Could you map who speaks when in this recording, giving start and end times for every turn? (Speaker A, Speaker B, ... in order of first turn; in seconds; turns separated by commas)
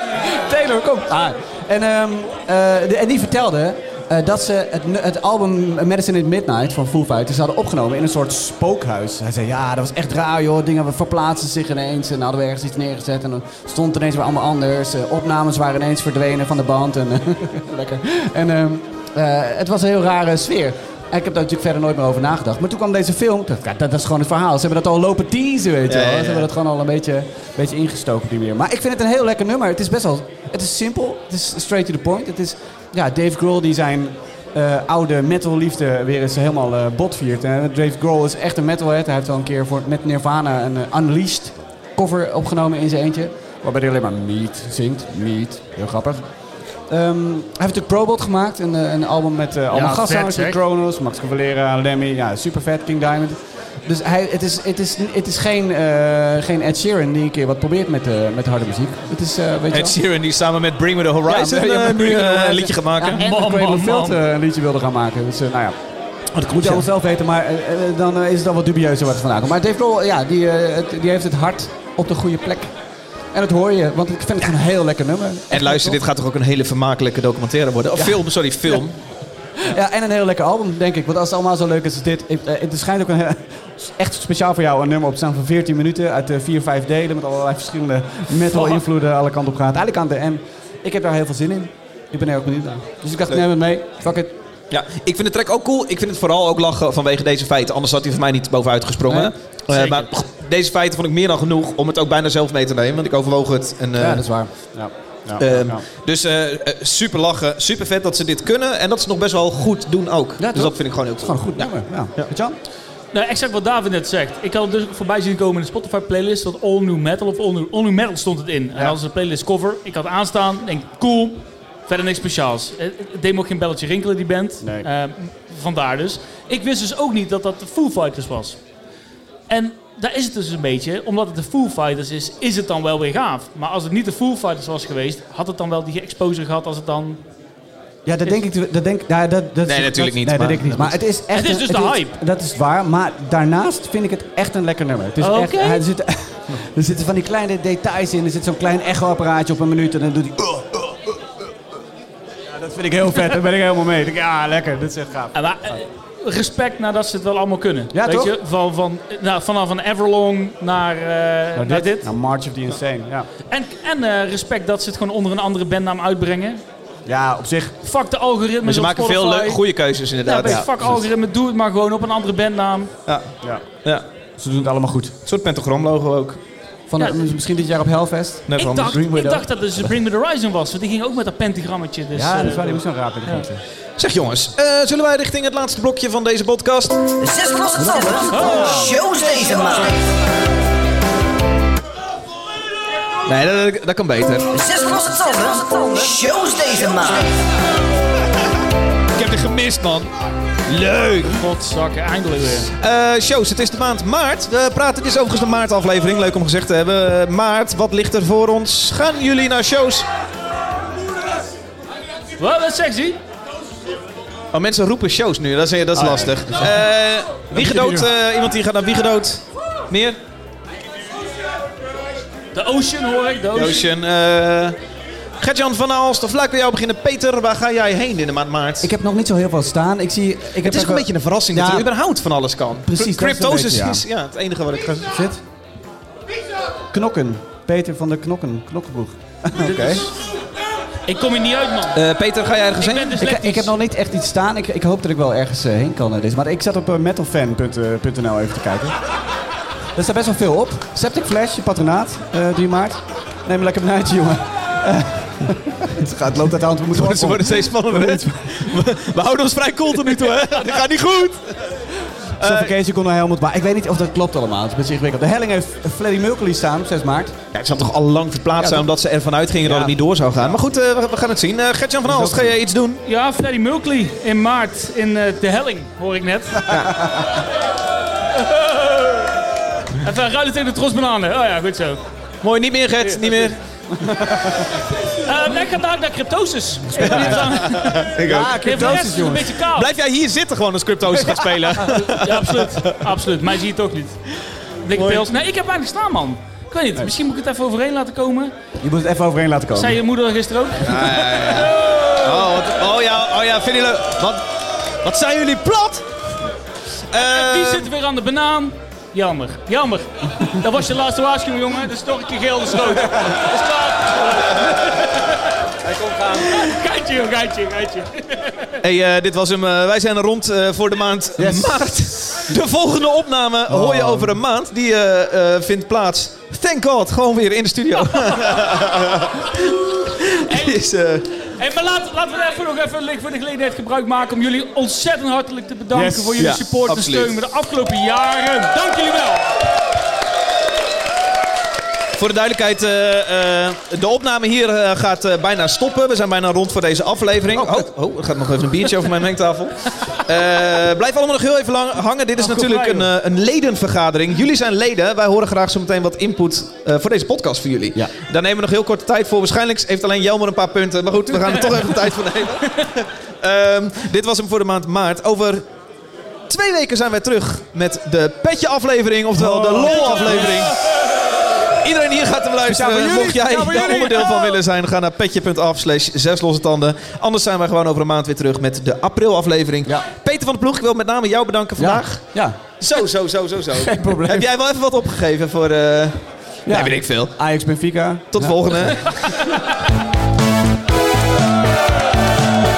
Speaker A: 0.5-46.2, Speaker B: 25.9-26.5, Speaker A: 46.9-60.0, Speaker C: 49.7-50.6, Speaker B: 59.7-63.2, Speaker A: 61.2-65.8, Speaker C: 63.1-64.2, Speaker B: 66.3-66.9, Speaker A: 66.5-72.7, Speaker A: 73.3-76.0, Speaker B: 75.5-79.0, Speaker A: 78.0-78.2, Speaker A: 79.6-94.3, Speaker B: 94.7-104.2, Speaker A: 99.1-99.3, Speaker C: 99.7-100.1, Speaker A: 104.0-105.8, Speaker B: 105.4-112.3, Speaker A: 110.4-112.6, Speaker C: 113.1-128.6, Speaker A: 124.6-124.9, Speaker C: 129.5-137.2, Speaker A: 138.1-151.5, Speaker B: 139.7-141.0, Speaker C: 141.3-142.1, Speaker C: 145.2-145.8, Speaker A: 152.5-155.8, Speaker C: 155.3-162.1, Speaker A: 157.9-158.3, Speaker A: 161.6-163.3, Speaker C: 163.5-166.6, Speaker A: 167.1-167.8, Speaker C: 167.8-169.6, Speaker B: 168.6-170.7, Speaker C: 170.2-172.9, Speaker A: 170.4-171.0, Speaker B: 173.1-173.3, Speaker A: 174.4-175.1, Speaker B: 175.3-176.4, Speaker A: 176.9-179.9, Speaker B: 178.5-179.0, Speaker C: 178.6-183.4, Speaker A: 182.1-183.6, Speaker B: 184.0-187.1, Speaker D: 187.2-189.9, Speaker A: 187.8-189.0, Speaker C: 188.3-189.1, Speaker B: 193.3-194.5, Speaker D: 194.6-197.3, Speaker B: 199.1-200.1, Speaker B: 200.7-201.3, Speaker C: 201.3-202.7, Speaker B: 202.8-210.1, Speaker C: 212.4-213.2, Speaker B: 214.5-220.2, Speaker A: 215.9-216.9, Speaker A: 217.5-218.1, Speaker C: 222.5-223.9, Speaker B: 223.5-224.8, Speaker B: 225.4-228.9, Speaker A: 228.8-231.9, Speaker B: 230.6-235.1, Speaker A: 232.8-234.0, Speaker A: 235.1-235.4, Speaker A: 236.9-240.0, Speaker C: 239.6-240.2, Speaker B: 239.7-239.9, Speaker C: 241.1-242.0, Speaker B: 241.9-243.2, Speaker C: 242.7-243.7, Speaker A: 243.2-249.0, Speaker A: 249.9-258.8, Speaker B: 256.9-261.6, Speaker B: 262.4-262.7, Speaker A: 262.4-267.4, Speaker B: 267.5-273.0, Speaker A: 268.6-268.9, Speaker A: 269.6-270.6, Speaker A: 272.1-272.6, Speaker C: 273.1-276.7, Speaker B: 276.7-276.9, Speaker A: 276.8-277.3, Speaker C: 278.3-279.4, Speaker C: 280.0-282.0, Speaker B: 282.4-283.6, Speaker C: 283.1-283.4, Speaker A: 283.9-284.8, Speaker C: 285.1-289.9, Speaker A: 286.9-289.5, Speaker B: 287.3-288.7, Speaker B: 289.7-293.0, Speaker C: 291.9-294.2, Speaker C: 294.8-298.5, Speaker B: 294.9-295.2, Speaker A: 298.8-300.0, Speaker C: 299.7-302.6, Speaker B: 300.8-306.1, Speaker B: 307.1-307.9, Speaker C: 307.1-315.5, Speaker C: 316.3-318.8, Speaker B: 318.8-331.3, Speaker A: 321.4-322.6, Speaker A: 323.7-324.4, Speaker C: 330.4-330.8, Speaker C: 331.4-339.5, Speaker A: 335.9-336.6, Speaker B: 336.4-337.3, Speaker B: 342.2-365.6, Speaker A: 347.5-347.9, Speaker C: 352.4-353.1, Speaker B: 366.5-370.8, Speaker A: 369.3-370.7, Speaker C: 370.0-370.6, Speaker B: 371.6-382.2, Speaker A: 372.6-374.6, Speaker A: 381.8-382.6, Speaker B: 382.8-387.3, Speaker A: 383.7-384.5, Speaker A: 386.7-388.9, Speaker B: 388.3-389.2